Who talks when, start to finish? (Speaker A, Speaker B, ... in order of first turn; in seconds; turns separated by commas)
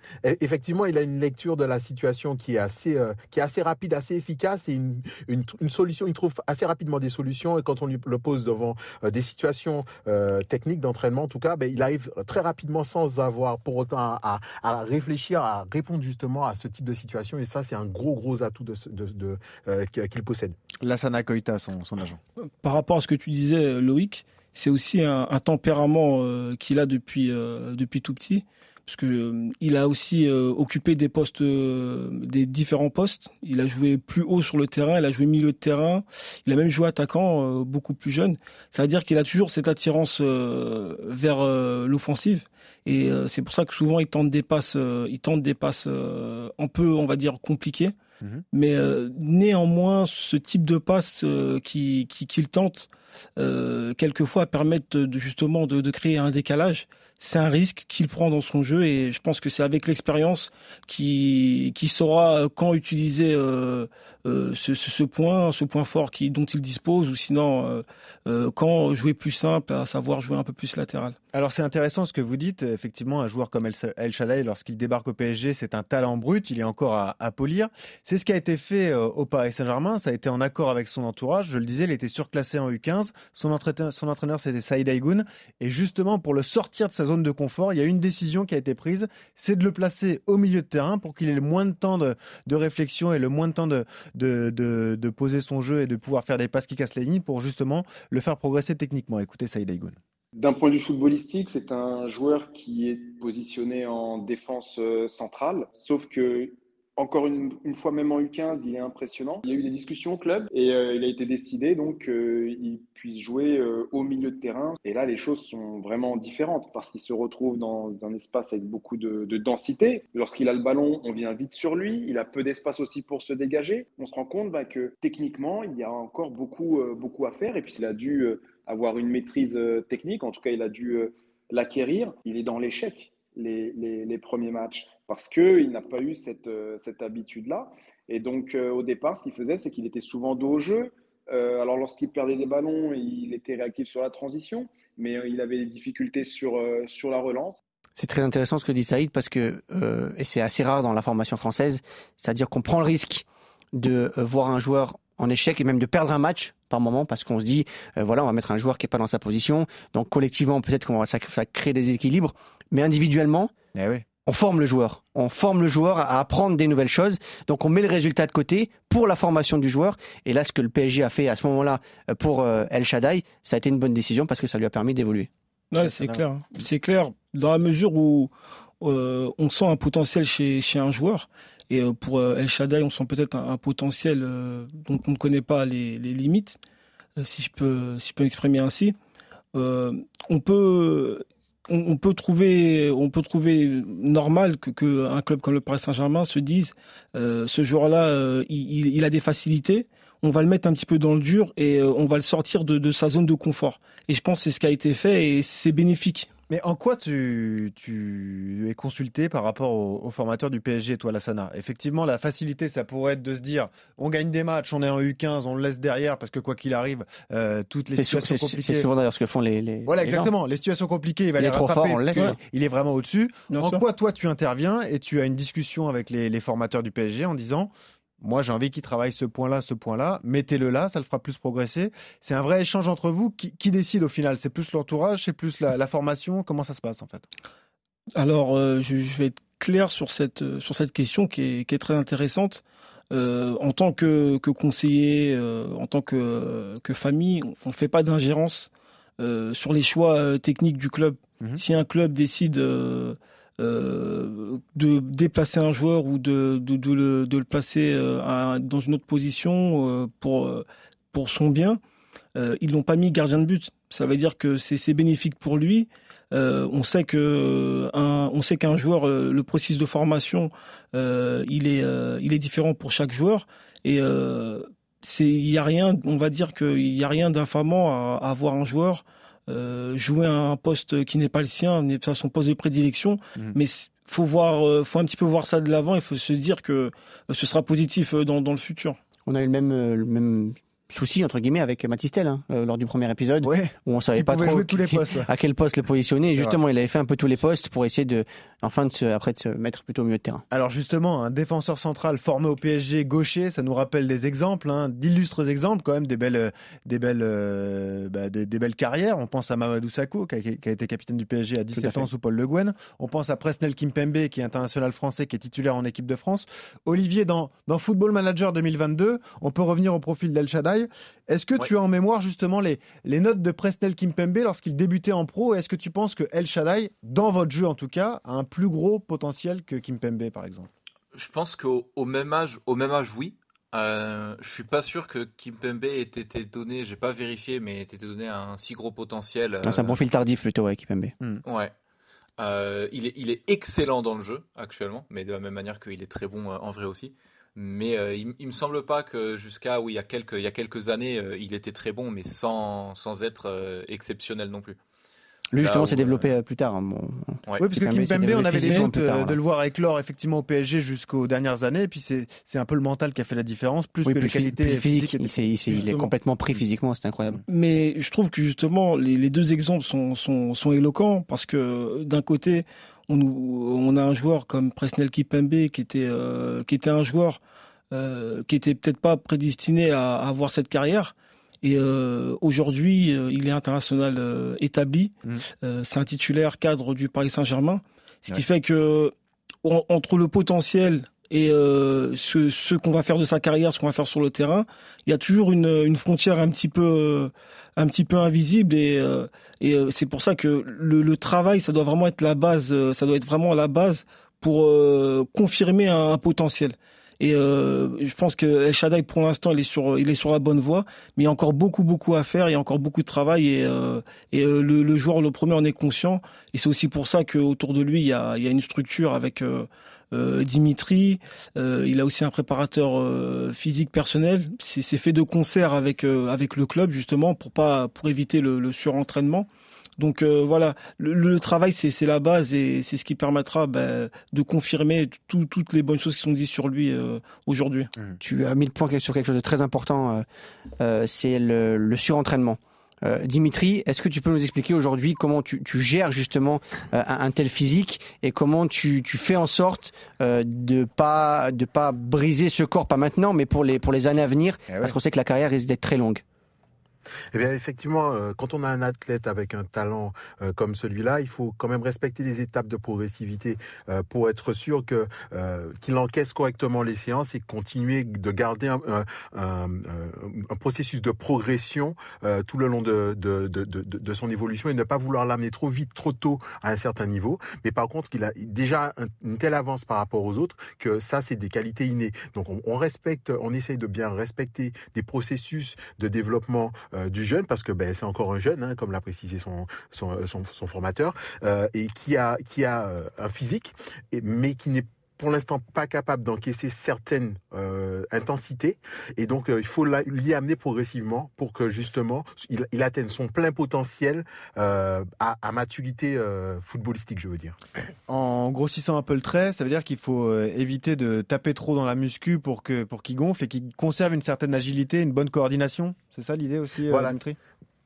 Speaker A: 0.2-20.6, Speaker B: 20.8-22.2, Speaker C: 22.4-47.9, Speaker C: 48.5-71.2, Speaker B: 71.3-100.0, Speaker D: 100.4-147.6, Speaker E: 148.0-163.5, Speaker B: 163.8-164.0, Speaker E: 164.2-175.3, Speaker C: 175.7-186.6, Speaker E: 175.8-176.2, Speaker C: 187.2-188.9, Speaker C: 189.5-206.3, Speaker B: 206.5-218.9, Speaker E: 217.9-220.3, Speaker B: 219.9-237.2, Speaker E: 221.4-222.4, Speaker C: 223.5-223.8, Speaker C: 238.2-261.8, Speaker C: 262.4-289.0, Speaker E: 289.2-300.4, Speaker B: 293.4-295.3, Speaker B: 300.5-330.7, Speaker E: 311.8-312.1, Speaker F: 331.1-340.0, Speaker E: 339.6-341.1, Speaker F: 341.4-341.7, Speaker F: 342.4-354.8, Speaker E: 355.5-359.4, Speaker F: 355.6-356.3, Speaker B: 357.6-365.5, Speaker C: 358.5-358.9, Speaker E: 364.0-367.4, Speaker C: 365.7-366.1, Speaker C: 367.5-377.4, Speaker C: 377.9-429.5, Speaker C: 430.0-437.9, Speaker E: 438.2-440.2, Speaker E: 440.8-456.2, Speaker B: 454.7-454.9, Speaker A: 457.3-507.6, Speaker B: 508.1-517.4, Speaker A: 516.9-517.2